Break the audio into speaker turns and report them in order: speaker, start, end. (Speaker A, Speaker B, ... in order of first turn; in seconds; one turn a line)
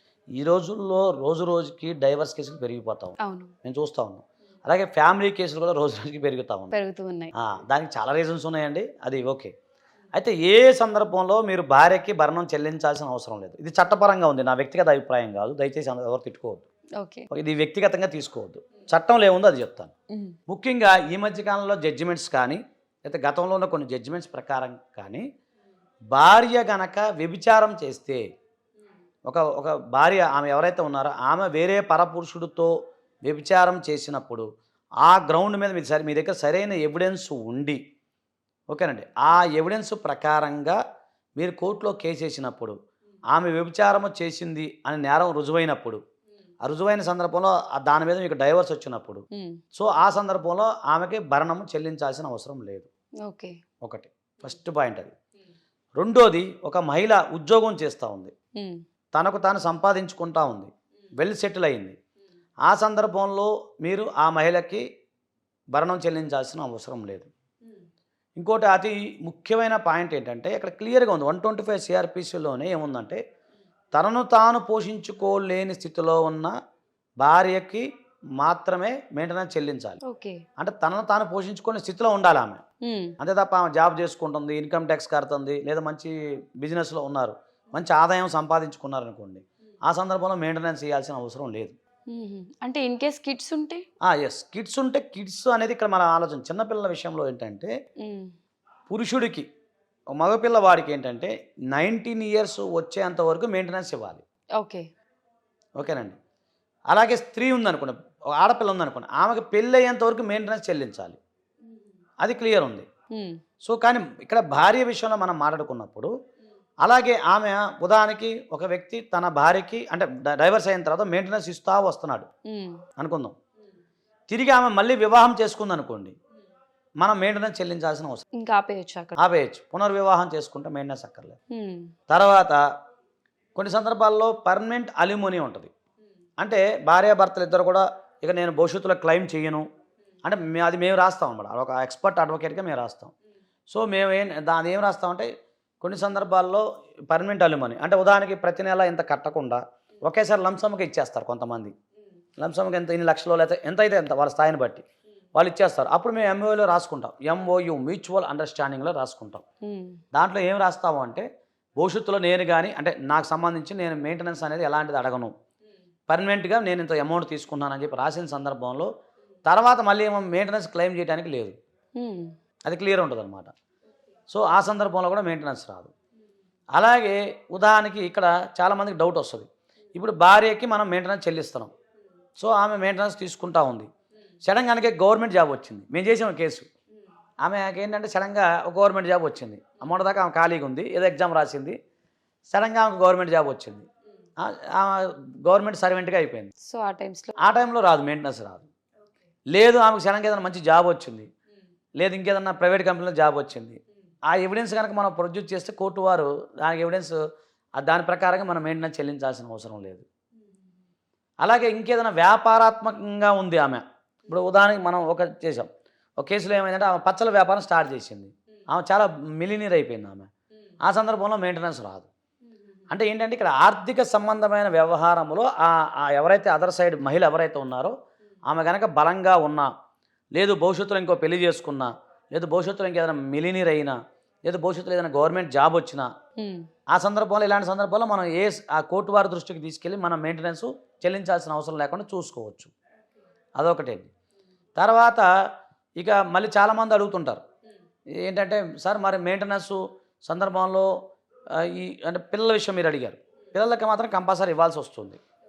Speaker A: 0.4-6.7
Speaker B: 3.2-3.5
Speaker B: 6.7-7.3
Speaker A: 7.4-9.5
Speaker A: 10.2-16.7
Speaker B: 17.0-17.3
Speaker A: 17.3-19.9
Speaker A: 20.5-25.2
Speaker A: 26.1-28.2
Speaker A: 29.3-32.7
Speaker A: 33.2-34.5
Speaker A: 35.0-37.8
Speaker A: 38.7-40.8
Speaker A: 41.4-42.8
Speaker A: 43.3-46.0
Speaker A: 46.6-49.2
Speaker B: 49.3-49.6
Speaker A: 49.7-52.9
Speaker B: 53.2-53.5
Speaker A: 53.8-55.1
Speaker A: 56.0-58.3
Speaker B: 58.6-58.8
Speaker A: 59.1-62.0
Speaker A: 62.7-64.8
Speaker A: 65.7-67.3
Speaker A: 68.4-73.2
Speaker A: 73.9-76.5
Speaker A: 77.2-77.8
Speaker A: 78.4-80.0
Speaker B: 80.0-80.4
Speaker A: 80.6-82.6
Speaker B: 82.8-83.2
Speaker A: 83.2-91.8
Speaker B: 92.1-93.8
Speaker A: 94.0-97.7
Speaker B: 98.0-98.3
Speaker A: 98.9-99.5
Speaker A: 100.1-104.2
Speaker B: 104.6-104.8
Speaker A: 105.8-106.2
Speaker A: 106.9-111.2
Speaker A: 112.2-112.9
Speaker B: 113.1-113.4
Speaker A: 113.6-116.1
Speaker A: 116.8-122.3
Speaker B: 122.5-122.8
Speaker A: 123.0-123.3
Speaker A: 124.3-126.2
Speaker A: 127.0-128.2
Speaker B: 128.4-129.2
Speaker A: 129.2-131.4
Speaker B: 131.5-131.9
Speaker A: 132.1-132.6
Speaker A: 133.6-135.7
Speaker A: 136.4-139.7
Speaker A: 140.2-143.1
Speaker A: 143.7-145.3
Speaker A: 145.8-151.7
Speaker A: 152.4-154.8
Speaker A: 155.3-159.4
Speaker B: 159.6-160.0
Speaker A: 160.1-161.3
Speaker A: 161.8-165.3
Speaker A: 166.1-168.9
Speaker A: 169.5-171.5
Speaker B: 172.0-172.3
Speaker A: 172.7-173.5
Speaker A: 174.3-175.9
Speaker A: 176.8-181.7
Speaker A: 182.4-183.9
Speaker A: 184.4-186.7
Speaker A: 187.4-191.8
Speaker A: 192.5-193.9
Speaker A: 194.4-196.5
Speaker B: 196.6-197.3
Speaker A: 197.4-198.7
Speaker A: 199.5-201.3
Speaker A: 202.0-207.2
Speaker A: 207.8-210.1
Speaker A: 211.4-220.3
Speaker A: 220.8-222.1
Speaker A: 222.9-227.9
Speaker A: 228.5-229.7
Speaker A: 230.3-233.9
Speaker A: 234.5-236.1
Speaker B: 236.4-236.7
Speaker A: 236.9-242.7
Speaker A: 243.6-244.1
Speaker A: 244.8-245.3
Speaker A: 246.0-247.4
Speaker A: 248.2-250.9
Speaker A: 251.6-255.2